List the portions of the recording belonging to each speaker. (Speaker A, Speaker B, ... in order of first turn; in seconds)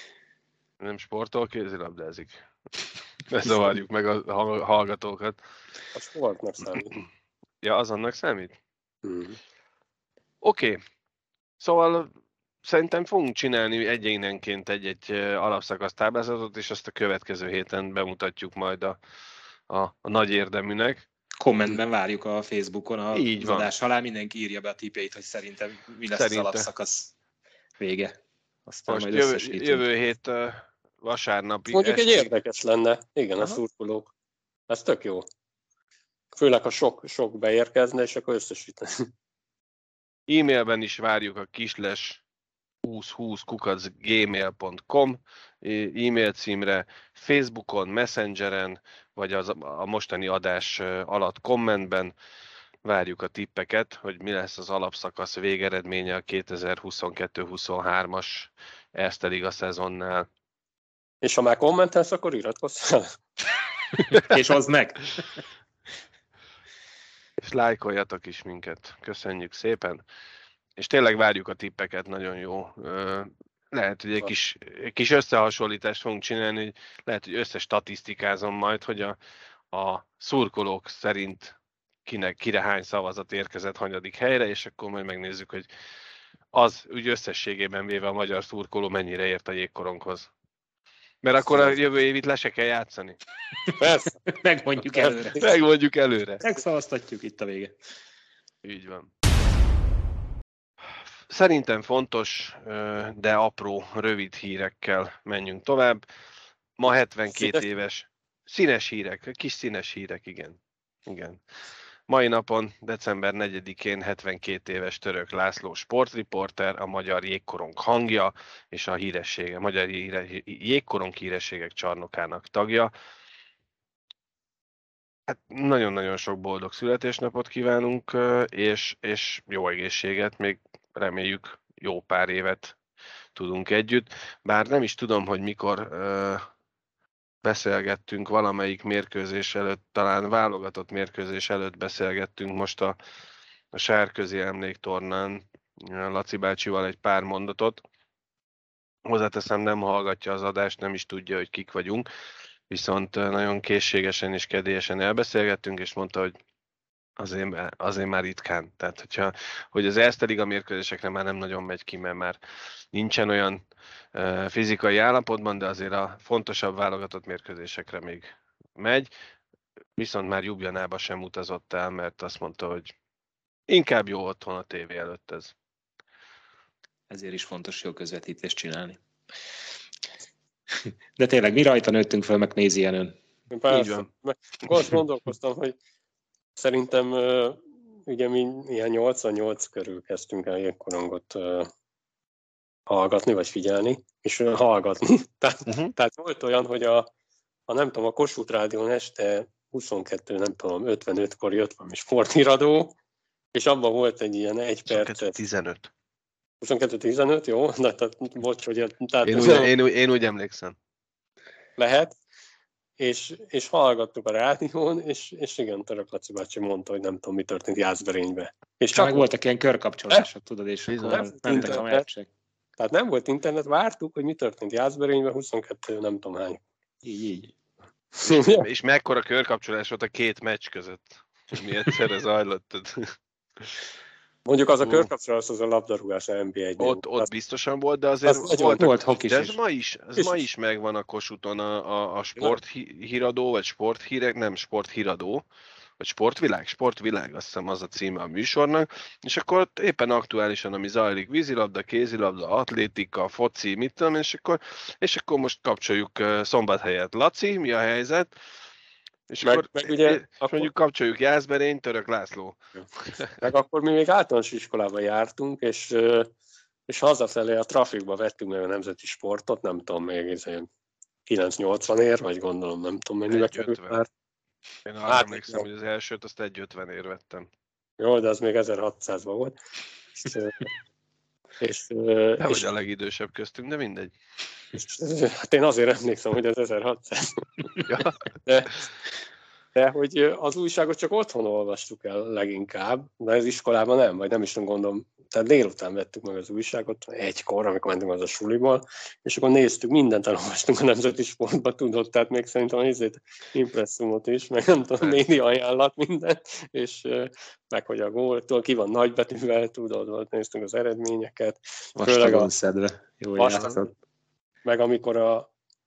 Speaker A: 0.8-2.4, 3.3-5.4, 7.6-8.6, 10.4-10.8, 11.6-12.1, 12.6-19.0, 19.7-21.0, 23.1-23.7, 26.1-26.7, 28.9-32.2, 40.3-42.2, 42.8-52.1, 52.8-60.3, 67.4-70.0, 70.8-79.2, 79.7-81.5, 82.0-85.7, 86.5-90.3, 91.2-93.2, 95.4-96.4, 98.6-99.1, 101.0-106.0, 106.8-111.4, 112.1-122.9, 125.3-132.8, 133.3-136.4, 137.4-142.9, 143.7-147.8, 149.1-152.1, 152.7-156.3, 157.2-162.4, 162.9-163.6, 164.1-169.1, 170.0-172.9, 173.7-175.5, 183.7-184.1, 195.7-195.9, 204.9-205.9, 209.2-210.8, 220.9-221.8, 228.2-233.8, 234.8-235.1, 236.8-245.4, 246.0-258.3, 259.3-263.3, 273.3-274.0, 274.9-277.5, 282.4-284.1, 287.9-288.2
Speaker B: 5.9-6.9, 9.0-9.4, 31.7-34.1, 34.7-35.3, 36.3-39.1, 61.2-63.2, 93.8-94.2, 94.9-95.5, 107.3-107.6, 183.5-185.8, 186.6-191.7, 192.9-197.1, 197.7-202.9, 203.5-205.4, 206.6-209.7, 211.8-212.2, 213.0-219.2, 221.1-222.1, 222.8-226.6, 228.2-228.6, 234.4-237.3, 238.2-238.8, 259.4-260.7, 263.4-266.3, 266.9-270.7, 271.3-274.1, 275.1-275.6, 278.0-279.6, 280.2-280.7, 281.6-282.6, 284.7-287.7, 288.4-288.7, 289.7-312.5, 313.4-313.8, 314.6-315.5
Speaker C: 21.4-27.1, 27.8-28.1, 28.6-29.8, 64.2-65.4, 94.2-95.4, 96.4-97.7, 177.1-179.0, 180.7-183.2, 218.9-222.3, 227.0-227.5, 238.8-239.6, 311.9-313.9